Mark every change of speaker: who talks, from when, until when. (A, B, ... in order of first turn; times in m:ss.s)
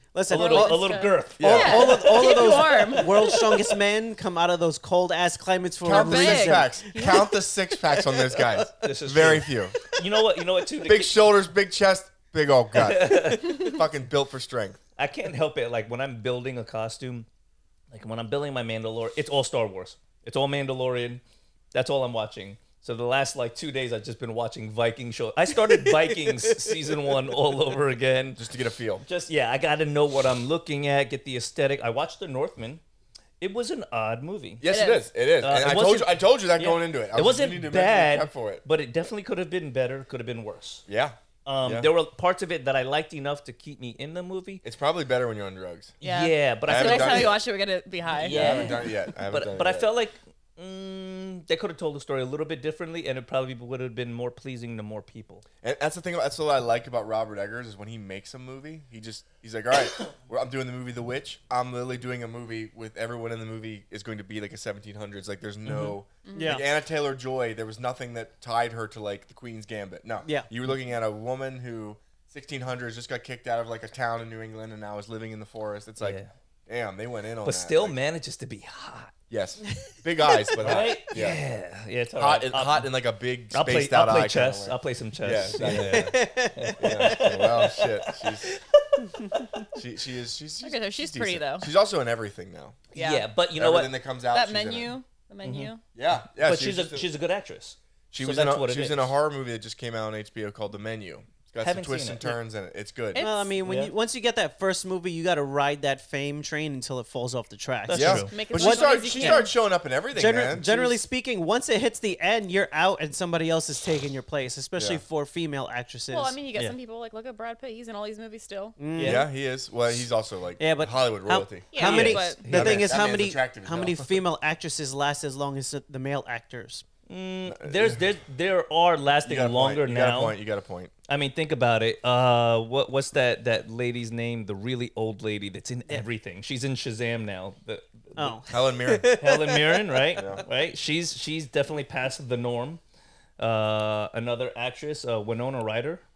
0:00.1-0:06.8 A
0:00.3-0:03.3 B
0:00.3-0:03.4 C
0:01.4-0:01.9 D
0:05.8-0:09.8 D
0:05.9-0:07.3 B
0:08.1-0:08.5 A
0:08.8-0:11.2 C
0:10.8-0:14.8 D
0:12.7-0:13.7 C
0:15.0-0:17.3 C
0:17.9-0:21.2 C
0:21.7-0:28.4 C
0:25.6-0:26.9 A
0:28.4-0:29.0 D
0:29.0-0:32.8 C
0:33.4-0:34.6 C
0:34.6-0:38.6 D
0:34.7-0:35.0 B
0:35.4-0:40.8 C
0:40.9-0:41.9 D
0:41.4-0:44.6 C
0:44.6-0:46.0 D
0:46.0-0:47.4 C
0:46.0-0:48.7 B
0:46.7-0:47.4 D
0:48.1-0:55.4 C
0:48.2-0:49.9 D
0:55.6-1:18.0 D
1:05.7-1:05.9 C
1:06.3-1:06.6 B
1:06.4-1:06.6 A
1:16.0-1:16.3 C
1:17.4-1:19.1 C
1:19.3-1:21.4 D
1:20.6-1:22.9 C
1:22.2-1:26.2 D
1:23.5-1:29.7 C
1:25.7-1:27.2 A
1:26.8-1:28.5 D
1:29.7-1:32.8 D
1:30.6-1:31.7 B
1:33.0-1:33.2 B
1:33.0-1:33.9 C
1:33.6-1:35.0 D
1:34.3-1:35.8 B
1:35.4-1:35.7 C
1:36.0-1:37.1 D
1:36.4-1:39.1 C
1:38.1-1:43.2 D
1:41.6-1:42.4 C
1:43.2-1:43.5 B
1:43.2-1:49.4 A
1:43.6-1:43.9 C
1:47.9-1:48.3 C
1:47.9-1:50.7 D
1:48.3-1:49.5 B
1:50.1-1:56.4 A
1:56.1-1:58.8 B
1:58.8-1:59.3 A
1:59.0-1:59.3 C
1:59.0-2:04.2 D
2:00.6-2:06.8 A
2:01.7-2:02.4 B
2:02.1-2:02.9 C
2:07.1-2:10.4 C
2:07.5-2:08.0 D
2:09.3-2:10.9 D
2:11.1-2:18.4 C
2:18.2-2:20.0 A
2:18.5-2:19.2 D
2:19.1-2:22.8 C
2:20.2-2:20.4 D
2:23.4-2:26.0 C